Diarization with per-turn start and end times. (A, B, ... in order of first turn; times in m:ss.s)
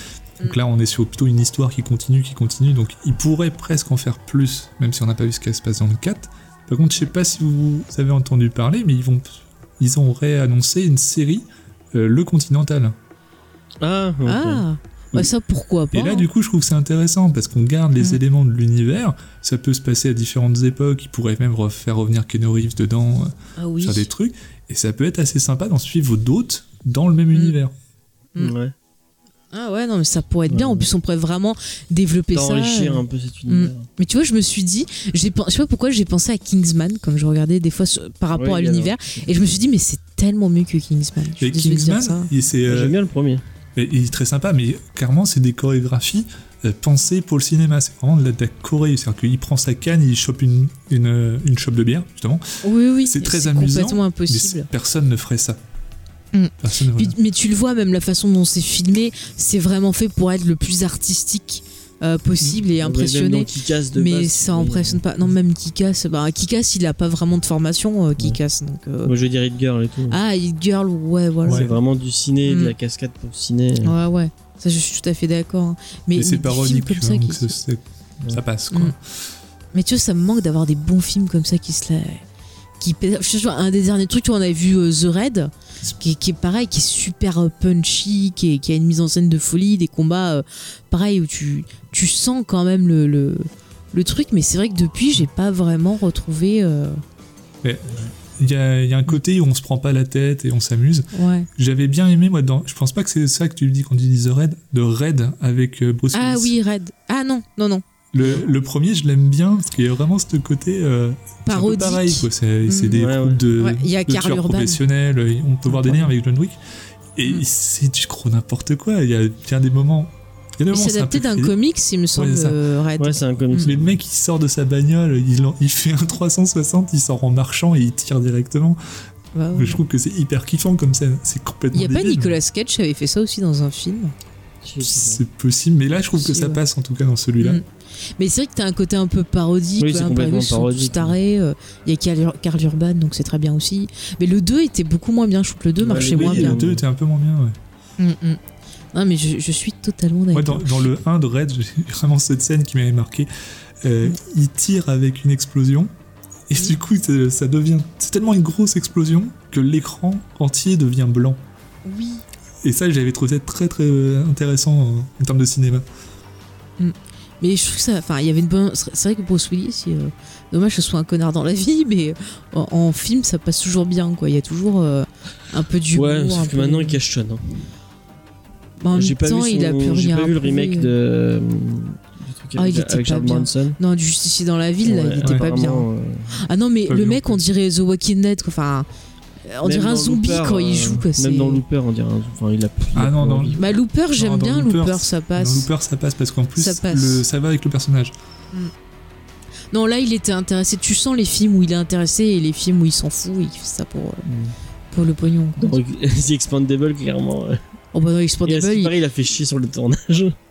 0:00.4-0:13.0 A
0:13.8-0:14.6 B
0:14.3-0:16.3 C
0:15.9-0:27.7 A
0:23.6-0:24.1 C
0:28.4-0:28.7 B
0:29.5-0:42.3 C
0:30.5-0:30.9 B
0:32.3-0:33.9 B
0:38.3-0:39.2 B
0:41.4-0:43.0 A
0:42.7-0:43.4 B
0:43.8-0:55.6 A
0:52.6-0:54.7 C
0:56.3-1:09.1 C
0:56.6-0:57.2 A
1:02.8-1:05.0 B
1:09.0-1:10.2 B
1:10.1-1:11.7 C
1:11.4-1:11.8 A
1:11.5-1:14.0 B
1:12.5-1:12.7 C
1:13.8-1:17.6 C
1:16.1-1:19.0 A
1:19.7-1:22.2 C
1:22.8-1:37.0 C
1:37.6-1:46.6 A
1:41.1-1:41.5 C
1:46.1-1:47.8 C
1:48.1-1:56.6 A
1:51.5-1:53.0 C
1:52.9-1:53.4 B
1:53.6-1:54.8 C
1:55.6-1:56.1 C
1:57.2-2:01.6 A
2:00.7-2:03.7 C
2:02.2-2:02.6 A
2:03.0-2:03.9 B
2:03.6-2:08.8 A
2:09.3-2:09.8 C
2:09.6-2:12.4 A
2:11.7-2:14.1 C
2:14.6-2:15.2 B
2:14.9-2:17.6 A
2:16.2-2:16.6 C
2:18.2-2:26.6 C
2:19.8-2:21.2 B
2:25.8-2:26.8 B
2:25.9-2:27.6 A
2:28.0-2:28.4 C
2:28.9-2:30.8 C
2:30.3-2:33.3 A
2:33.8-2:35.9 A
2:36.5-2:41.4 A
2:41.8-2:42.2 C
2:42.6-2:45.9 A
2:46.8-2:57.0 C
2:55.9-2:57.7 B
2:58.8-3:00.9 C
2:58.9-3:03.8 B
3:02.6-3:05.9 C
3:04.8-3:06.4 B
3:06.4-3:08.9 C
3:06.9-3:07.4 A
3:09.5-3:11.6 C
3:09.6-3:13.6 B
3:13.0-3:13.6 A
3:13.6-3:15.7 C
3:14.1-3:18.1 A
3:16.6-3:17.2 C
3:19.7-3:24.2 C
3:24.2-3:24.5 B
3:24.9-3:25.8 C
3:25.6-3:27.6 B
3:27.9-3:28.9 C
3:28.5-3:30.4 B